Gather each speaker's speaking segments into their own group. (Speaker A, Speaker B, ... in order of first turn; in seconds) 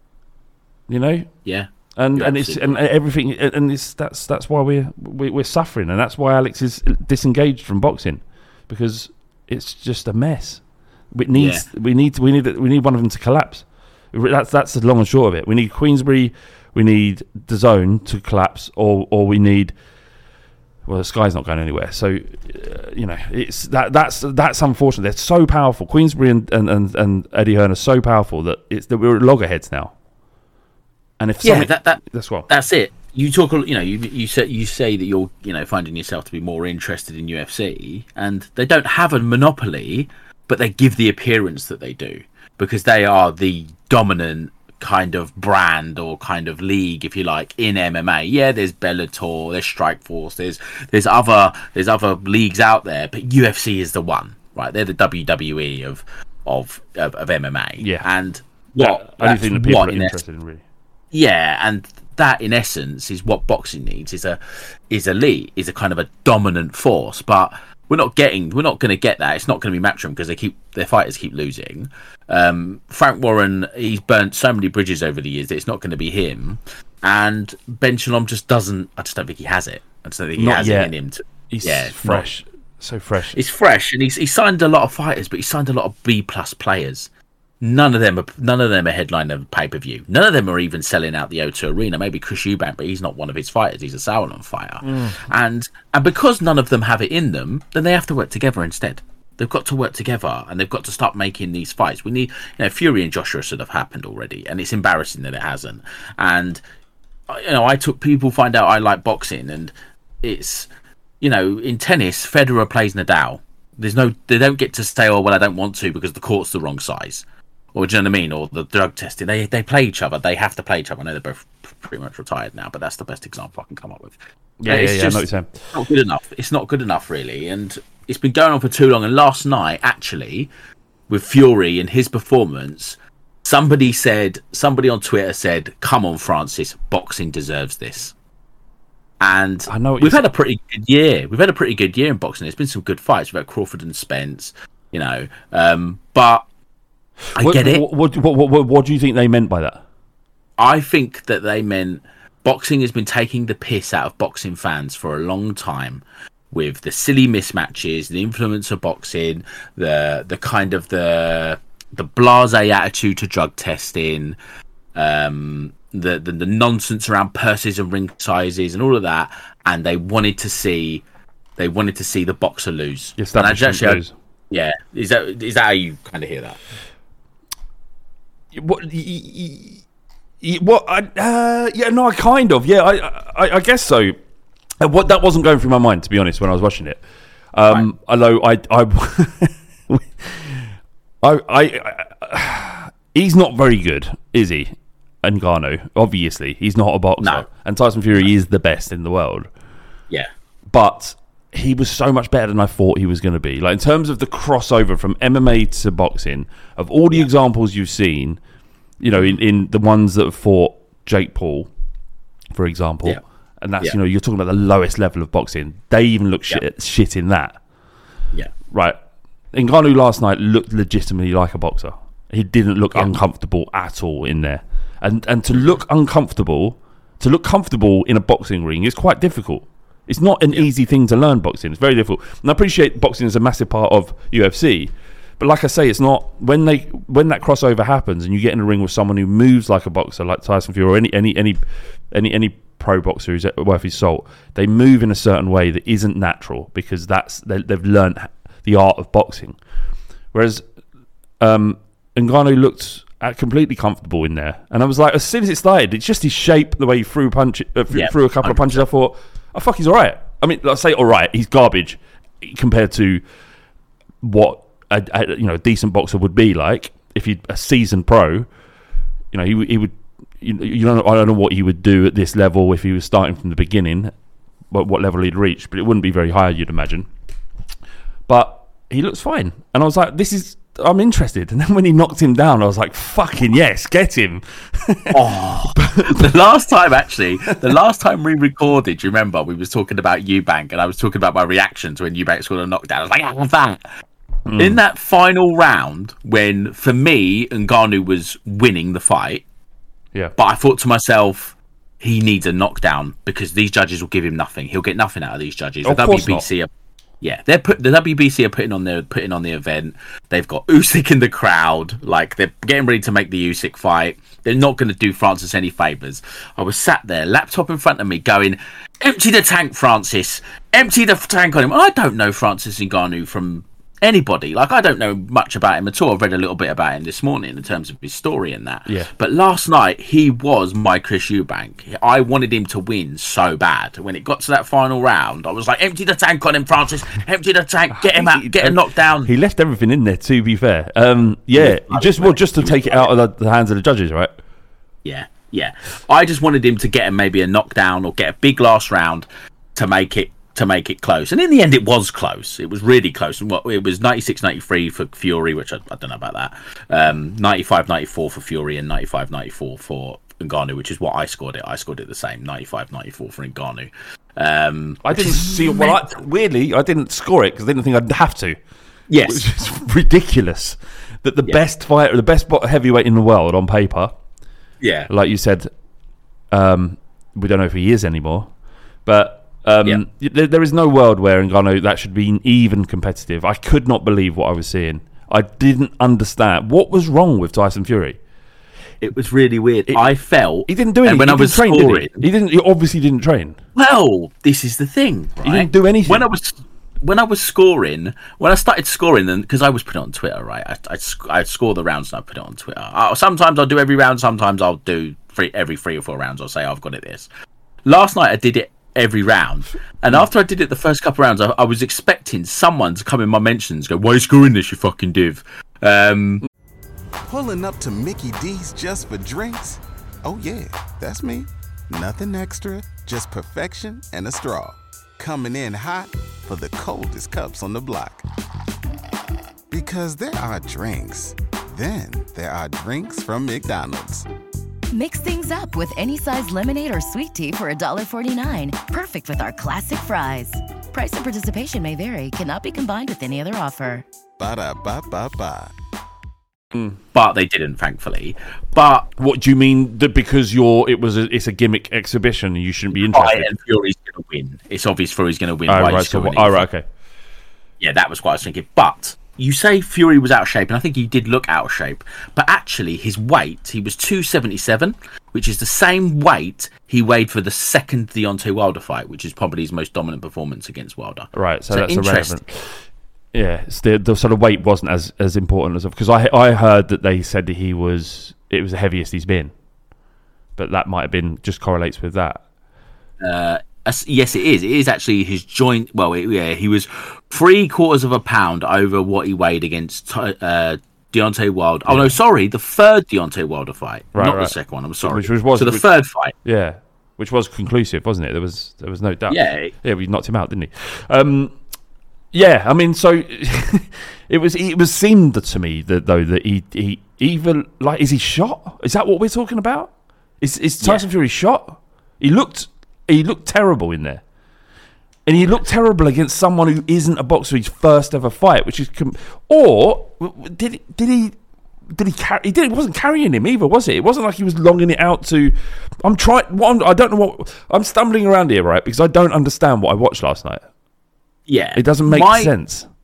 Speaker A: 0.9-1.3, 2.0-19.7, 20.9-29.9, 31.2-32.5, 57.8-58.0, 58.8-60.6, 80.4-80.9, 81.5-83.4, 94.8-95.2, 124.6-125.7, 139.7-140.3, 147.3-149.8, 173.2-174.1, 178.5-179.8, 180.4-184.2, 184.8-187.0, 187.5-190.7, 191.2-199.5, 200.7-208.4, 209.0-211.7, 212.5-217.6, 218.7-219.0, 219.5-241.6, 242.1-249.6, 250.3-250.6, 251.4-263.2, 264.2-268.5, 269.3-274.1, 274.7-277.1, 278.3-286.3, 294.5-294.8, 305.8-306.4, 337.9-344.3, 365.0-368.6, 369.2-374.1, 375.1-375.7, 376.5-378.5, 379.0-388.2, 390.7-393.6, 395.4-396.3, 449.2-453.5, 455.7-456.9, 471.3-479.5, 480.6-482.4, 491.9-492.1, 494.1-495.9, 496.4-501.6, 502.3-514.2, 515.2-521.4, 521.9-530.6, 531.8-532.9
Speaker B: 1.4-2.8, 11.3-11.7, 31.4-60.2, 61.1-82.3, 83.3-87.1, 87.6-106.6, 107.3-110.7, 111.2-124.1, 124.7-130.5, 131.1-138.1, 139.2-146.4, 147.3-147.8, 150.6-164.4, 164.9-171.0, 171.6-176.6, 197.2-197.5, 209.1-209.4, 257.9-258.9, 285.1-293.8, 294.6-299.4, 300.4-306.7, 307.2-339.3, 341.5-343.1, 345.0-366.2, 369.1-369.4, 374.8-375.1, 389.0-392.2, 393.8-407.3, 407.9-416.4, 447.1-449.1, 452.9-456.6, 457.8-472.4, 483.2-496.3, 499.3-499.7, 510.8-511.1, 531.5-532.5
Speaker C: 417.3-428.2, 429.7-434.2, 444.4-445.7
Speaker D: 434.9-444.0